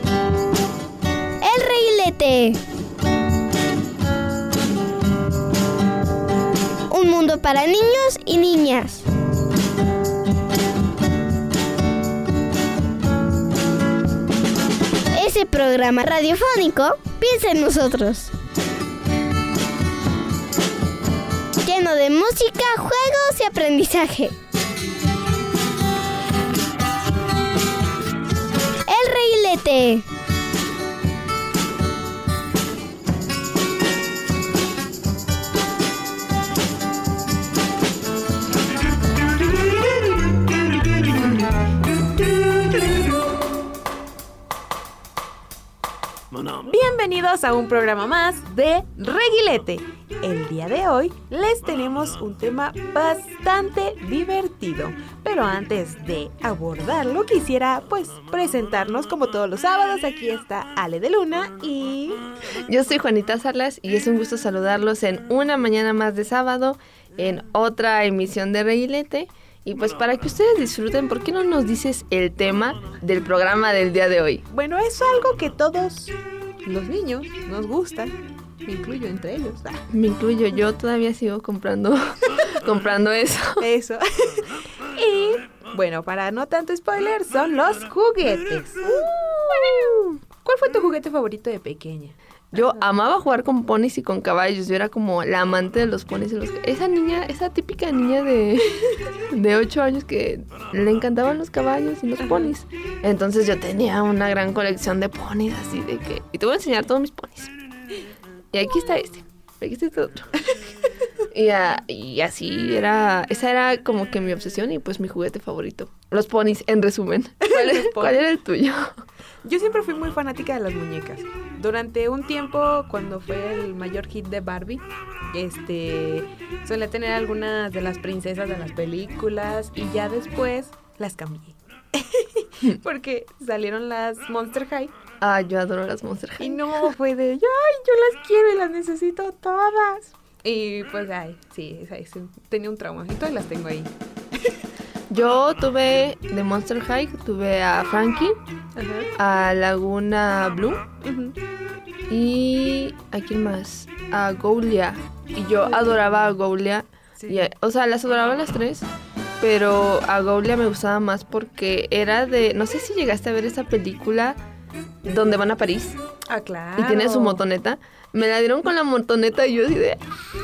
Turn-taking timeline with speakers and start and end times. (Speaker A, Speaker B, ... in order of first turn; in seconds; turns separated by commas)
Speaker A: 1.4-2.6, Speaker A: 6.9-9.0, Speaker A: 15.1-18.3, Speaker A: 21.6-24.3, Speaker A: 28.9-30.0, Speaker B: 46.5-62.2, Speaker C: 62.7-74.4, Speaker B: 74.5-79.8, Speaker C: 79.9-83.7, Speaker B: 83.6-88.8, Speaker B: 90.4-92.8, Speaker C: 92.5-98.8, Speaker C: 99.3-107.5, Speaker B: 102.2-102.5, Speaker C: 108.5-110.3, Speaker C: 111.3-118.9, Speaker B: 117.4-118.2, Speaker B: 119.4-134.9, Speaker C: 135.2-136.7, Speaker B: 136.4-143.9, Speaker C: 145.1-148.4, Speaker B: 148.8-149.1, Speaker C: 149.2-150.9, Speaker B: 151.0-151.3, Speaker C: 152.1-158.9, Speaker B: 155.8-156.2, Speaker B: 157.2-157.5, Speaker C: 159.4-164.4, Speaker C: 165.0-166.0, Speaker B: 166.3-167.4, Speaker C: 166.8-170.0